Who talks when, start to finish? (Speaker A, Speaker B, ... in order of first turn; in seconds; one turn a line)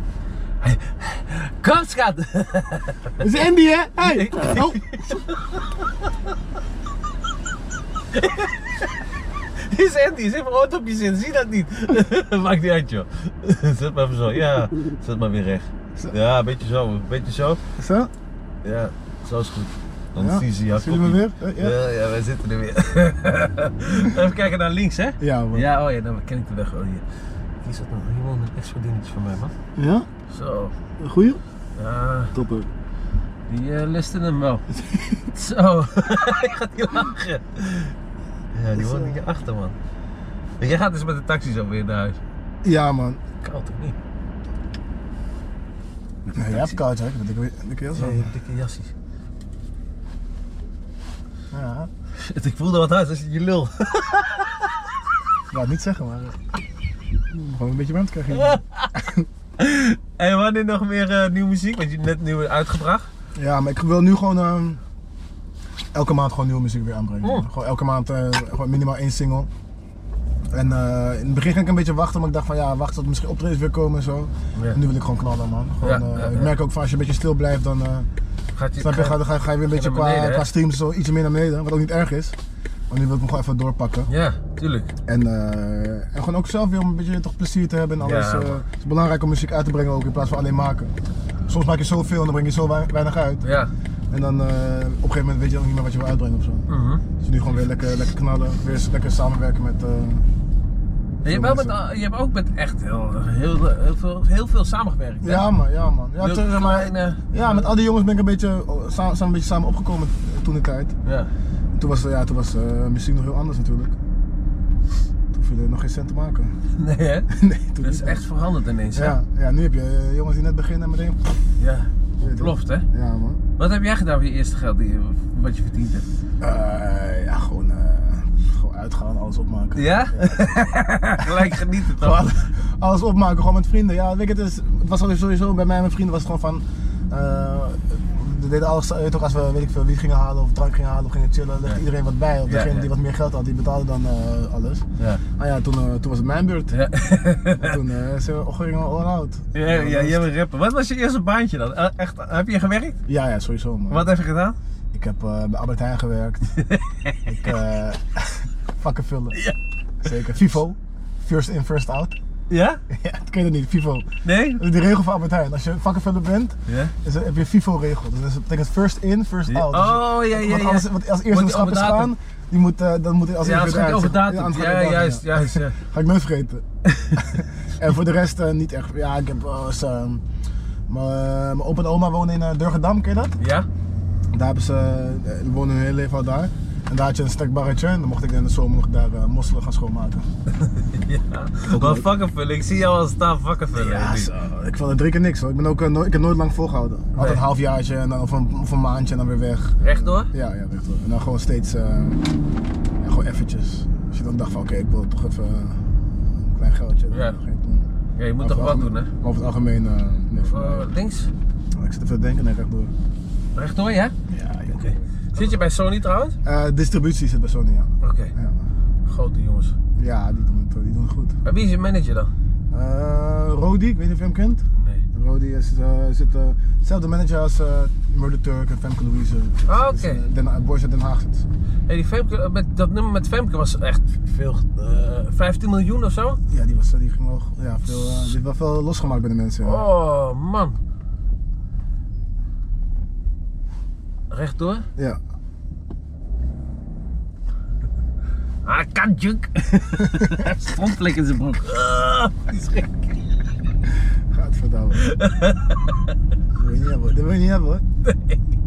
Speaker A: 0.6-3.1
Speaker B: 3.2-4.8
Speaker A: 4.0-6.1
Speaker A: 8.1-8.9
Speaker A: 9.6-17.6
Speaker B: 17.8-18.1
Speaker A: 18.6-27.0
Speaker B: 20.1-21.8
Speaker B: 25.2-25.7
Speaker A: 27.6-29.5
Speaker B: 29.8-30.1
Speaker A: 30.3-30.7
Speaker B: 31.0-31.4
Speaker A: 31.8-32.3
Speaker B: 32.3-32.7
Speaker A: 33.5-34.6
Speaker B: 34.8-35.3
Speaker A: 35.3-37.9
Speaker A: 38.5-39.7
Speaker B: 38.8-39.2
Speaker A: 40.6-42.2
Speaker B: 42.6-43.2
Speaker A: 43.4-44.0
Speaker A: 46.2-46.8
Speaker B: 46.3-48.3
Speaker A: 47.9-48.9
Speaker B: 51.5-51.9
Speaker A: 52.1-54.8
Speaker B: 55.5-56.4
Speaker B: 57.3-59.3
Speaker A: 58.3-58.9
Speaker A: 59.6-63.1
Speaker B: 63.3-64.8
Speaker B: 65.9-69.5
Speaker B: 70.5-78.1
Speaker A: 75.8-76.5
Speaker A: 78.5-80.5
Speaker B: 78.8-82.3
Speaker B: 82.9-84.1
Speaker A: 84.1-84.9
Speaker B: 85.0-90.9
Speaker A: 88.0-88.6
Speaker B: 91.5-93.4
Speaker A: 93.4-93.7
Speaker B: 94.1-96.7
Speaker A: 96.7-97.0
Speaker B: 97.2-100.3
Speaker B: 101.2-101.8
Speaker A: 101.2-105.5
Speaker B: 105.2-110.9
Speaker A: 106.2-107.7
Speaker A: 111.0-111.3
Speaker B: 111.8-113.9
Speaker B: 115.3-116.5
Speaker A: 116.8-117.3
Speaker B: 117.3-118.2
Speaker A: 117.8-119.2
Speaker B: 118.9-121.4
Speaker A: 121.6-122.8
Speaker B: 122.2-123.4
Speaker A: 123.6-126.0
Speaker B: 126.4-130.5
Speaker A: 129.7-132.4
Speaker B: 131.2-144.8
Speaker A: 142.5-142.9
Speaker B: 145.4-146.7
Speaker A: 146.7-147.8
Speaker B: 147.5-150.2
Speaker A: 149.5-153.0
Speaker B: 153.1-154.1
Speaker A: 153.9-154.6
Speaker B: 154.9-156.6
Speaker A: 156.5-157.5
Speaker B: 157.2-159.4
Speaker B: 160.0-162.2
Speaker A: 162.5-162.8
Speaker B: 162.9-176.6
Speaker A: 164.2-164.6
Speaker A: 166.7-166.9
Speaker A: 169.5-172.1
Speaker A: 173.4-175.7
Speaker A: 176.8-177.3
Speaker B: 177.2-180.2
Speaker B: 180.9-183.3
Speaker A: 183.4-183.7
Speaker B: 184.3-190.3
Speaker A: 190.5-194.3
Speaker B: 191.7-192.1
Speaker B: 193.7-202.2
Speaker A: 197.2-197.4
Speaker A: 199.8-200.3
Speaker B: 203.0-207.9
Speaker A: 207.1-207.4
Speaker A: 208.2-209.1
Speaker B: 208.4-210.9
Speaker A: 210.4-211.3
Speaker B: 211.7-212.9
Speaker A: 213.6-214.1
Speaker B: 214.3-215.6
Speaker A: 214.7-216.4
Speaker B: 216.4-218.6
Speaker A: 218.0-218.3
Speaker A: 219.1-219.7
Speaker B: 220.0-221.4
Speaker A: 221.4-222.3
Speaker B: 222.7-231.4
Speaker A: 224.8-225.0
Speaker A: 229.7-230.2
Speaker A: 231.9-236.4
Speaker B: 236.5-239.8
Speaker A: 237.8-238.3
Speaker A: 239.6-240.8
Speaker A: 244.3-244.8
Speaker A: 248.6-253.2
Speaker B: 250.1-250.4
Speaker B: 254.1-255.1
Speaker A: 254.9-256.1
Speaker B: 256.5-257.8
Speaker A: 258.0-258.4